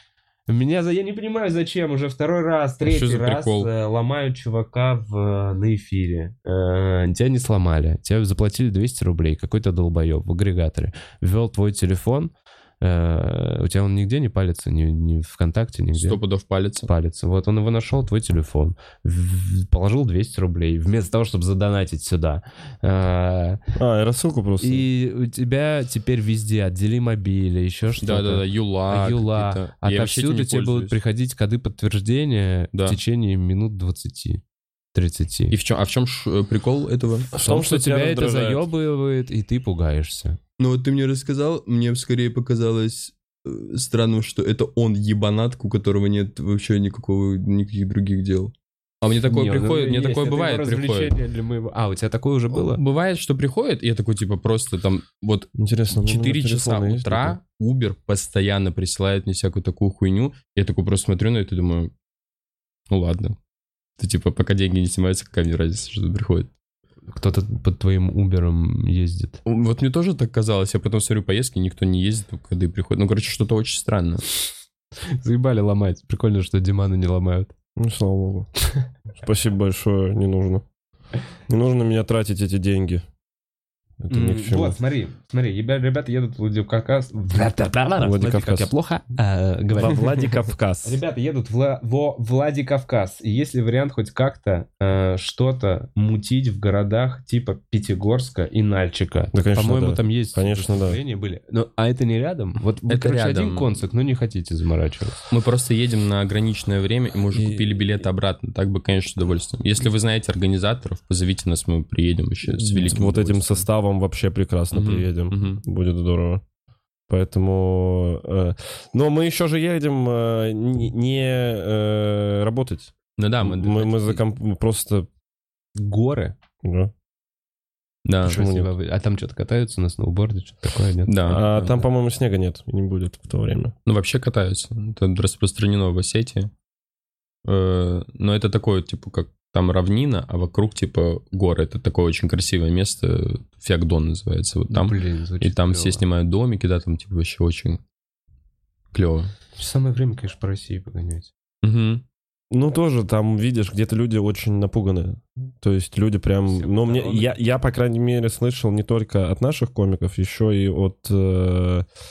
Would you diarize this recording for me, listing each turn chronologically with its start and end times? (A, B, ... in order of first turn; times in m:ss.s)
0:00.5-0:16.2 A
0:02.8-0:03.7 B
0:16.0-0:16.9 B
0:16.8-0:23.6 A
0:23.8-0:24.9 C
0:24.6-0:34.4 A
0:28.0-0:31.0 B
0:32.7-0:33.0 B
0:34.9-0:35.6 A
0:35.5-0:37.3 B
0:37.3-0:38.6 C
0:37.3-0:40.4 A
0:40.6-0:51.1 B
0:49.2-0:52.8 A
0:52.6-1:01.9 B
0:55.6-0:57.4 C
1:02.9-1:03.4 B
1:04.0-1:06.5 B
1:07.1-1:09.4 A
1:09.4-1:14.2 B
1:15.1-1:17.5 A
1:17.8-1:18.5 C
1:19.2-1:20.6 C
1:21.5-1:23.1 C
1:24.0-1:24.8 C
1:24.1-1:30.3 A
1:28.0-1:28.7 C
1:29.8-1:31.0 C
1:30.8-1:45.2 A
1:39.3-1:41.0 C
1:42.9-1:43.7 B
1:45.3-1:53.7 B
1:47.3-1:47.7 C
1:52.4-1:56.4 C
1:54.7-1:55.6 B
1:57.1-2:05.1 C
2:03.2-2:04.2 B
2:05.8-2:06.4 A
2:06.6-2:06.9 C
2:08.0-2:08.4 B
2:08.2-2:11.2 A
2:08.3-2:08.7 C
2:11.1-2:11.8 B
2:11.3-2:13.7 C
2:13.9-2:16.5 B
2:17.4-2:27.8 B
2:24.7-2:26.0 A
2:28.9-2:29.3 B
2:29.6-2:31.3 A
2:31.6-2:32.0 B
2:32.5-2:41.9 C
2:36.5-2:37.4 A